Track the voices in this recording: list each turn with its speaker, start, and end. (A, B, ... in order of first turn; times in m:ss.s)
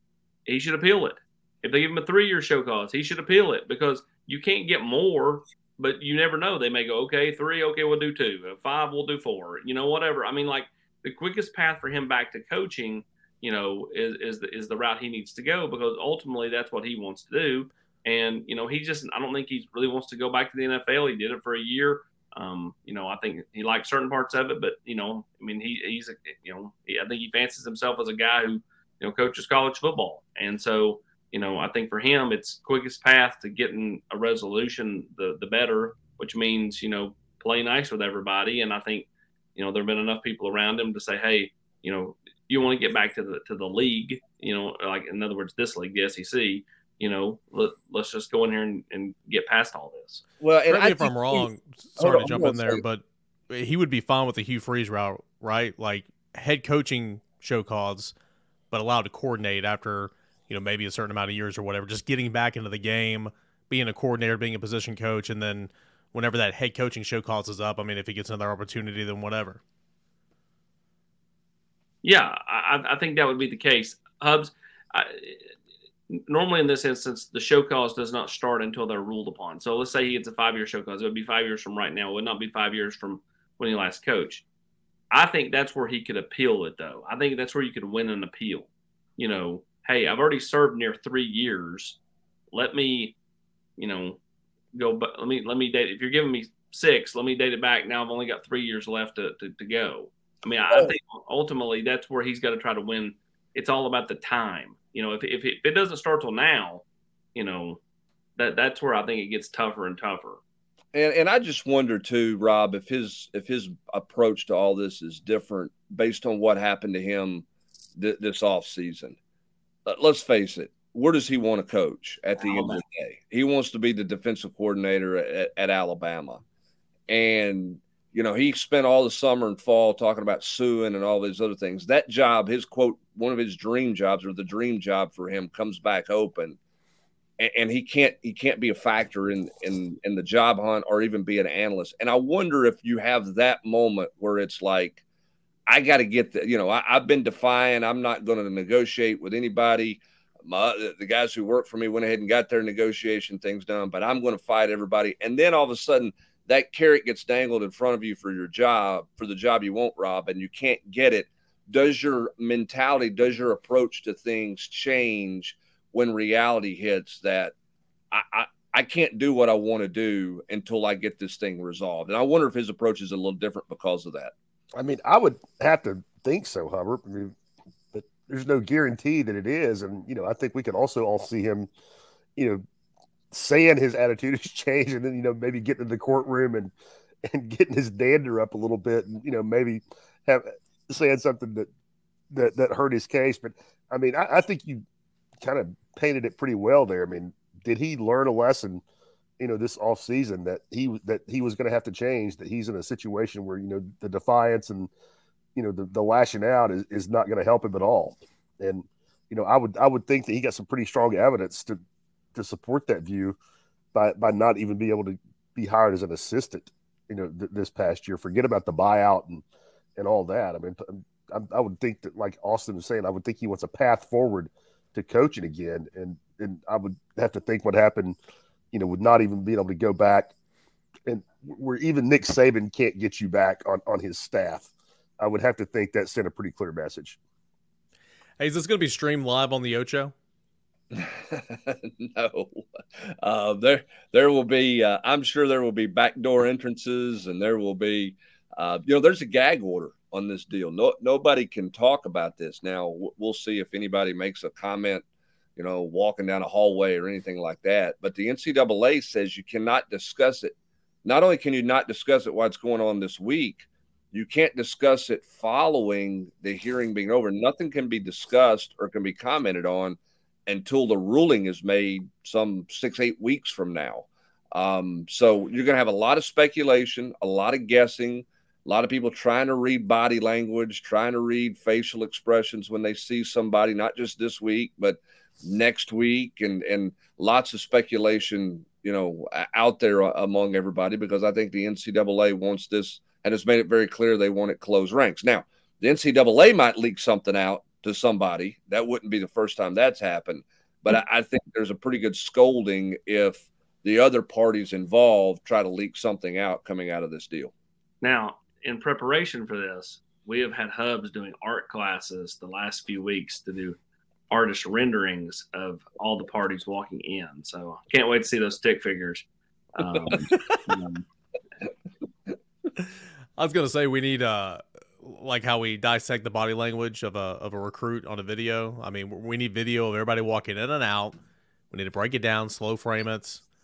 0:00.5-0:50.2 A
0:50.4-0:51.5 B
0:50.7-0:58.1 C
0:52.0-0:52.8 B
0:58.7-1:09.6 C
1:12.0-1:15.5 A
1:16.1-1:24.4 A
1:25.1-1:32.0 A
1:32.5-1:33.2 A
1:33.8-1:34.2 A
1:34.8-1:46.8 A
1:47.4-1:47.8 A
1:48.4-1:50.4 A
1:50.9-1:59.2 B
1:59.9-2:06.4 B
2:02.4-2:02.8 A
2:07.1-2:16.6 B
2:17.4-2:25.0 B
2:25.7-2:47.5 B
2:48.1-2:54.3 B
2:54.8-2:57.4 D
2:57.9-3:01.7 D
3:02.4-3:02.6 D
3:03.3-3:06.7 D
3:07.2-3:11.7 D
3:12.3-3:14.8 D
3:15.4-3:18.8 D
3:19.4-3:24.9 D
3:25.6-3:31.8 D
3:32.4-3:33.4 D
3:33.9-3:39.4 D
3:40.0-3:48.2 D
3:48.7-3:50.3 D
3:51.1-3:57.2 D
3:58.4-4:00.1 C
4:00.9-4:15.0 B
4:15.6-5:07.5 B
5:08.0-5:13.8 A
5:14.3-5:21.0 A
5:23.4-5:31.2 C
5:31.7-5:33.4 C